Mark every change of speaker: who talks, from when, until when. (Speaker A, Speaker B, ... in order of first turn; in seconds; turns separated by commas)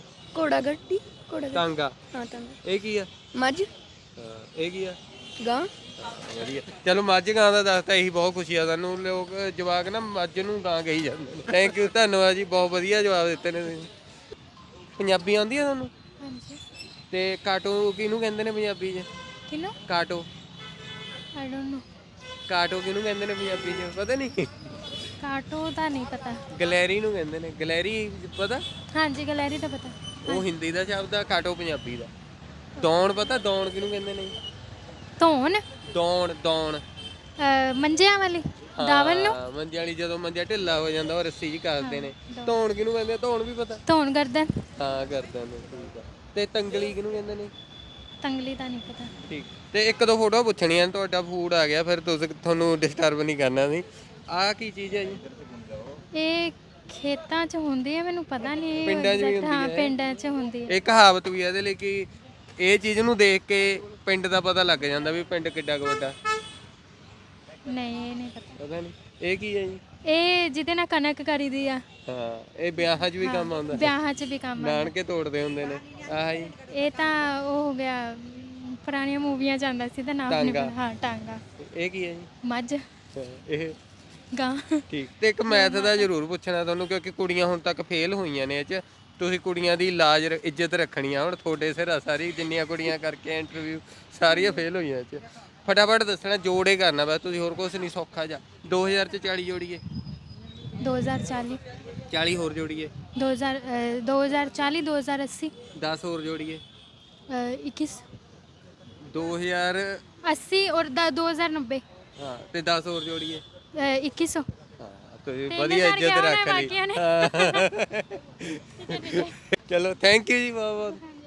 Speaker A: 0.3-2.6, Speaker B: 1.6-1.9, Speaker B: 2.6-3.1, Speaker A: 3.4-3.7, Speaker B: 4.2-5.0, Speaker A: 5.4-5.7, Speaker B: 6.0-13.9, Speaker B: 15.0-15.9, Speaker C: 16.2-16.6, Speaker B: 17.1-19.1, Speaker C: 19.5-19.8, Speaker B: 19.9-20.3, Speaker C: 21.4-21.8, Speaker B: 22.5-24.5, Speaker C: 25.2-26.4, Speaker B: 26.5-28.6, Speaker C: 28.9-30.5, Speaker B: 30.3-32.1, Speaker B: 32.8-34.4, Speaker C: 35.2-35.6, Speaker B: 35.9-36.8, Speaker C: 37.4-39.4, Speaker B: 38.8-43.8, Speaker C: 41.8-42.6, Speaker C: 43.9-44.5, Speaker B: 44.8-47.5, Speaker C: 48.2-49.1, Speaker B: 49.3-55.2, Speaker C: 56.2-60.7, Speaker B: 58.8-59.9, Speaker B: 60.7-62.1, Speaker B: 62.6-66.2, Speaker C: 67.7-68.6, Speaker B: 68.6-69.8, Speaker C: 70.1-71.8, Speaker B: 72.1-73.9, Speaker C: 73.2-74.9, Speaker B: 74.6-76.6, Speaker C: 76.6-81.4, Speaker B: 80.3-80.7, Speaker B: 81.6-82.3, Speaker C: 82.5-82.8, Speaker B: 83.2-83.8, Speaker C: 84.3-84.8, Speaker B: 84.9-99.8, Speaker C: 85.5-86.1, Speaker C: 94.3-94.6, Speaker C: 100.8-101.6, Speaker B: 102.1-102.9, Speaker C: 103.2-105.5, Speaker B: 105.8-106.6, Speaker C: 107.3-108.0, Speaker B: 109.0-110.0, Speaker C: 110.2-111.8, Speaker B: 112.2-113.4, Speaker C: 113.8-114.5, Speaker B: 114.8-121.0, Speaker C: 115.5-117.7, Speaker C: 118.8-119.3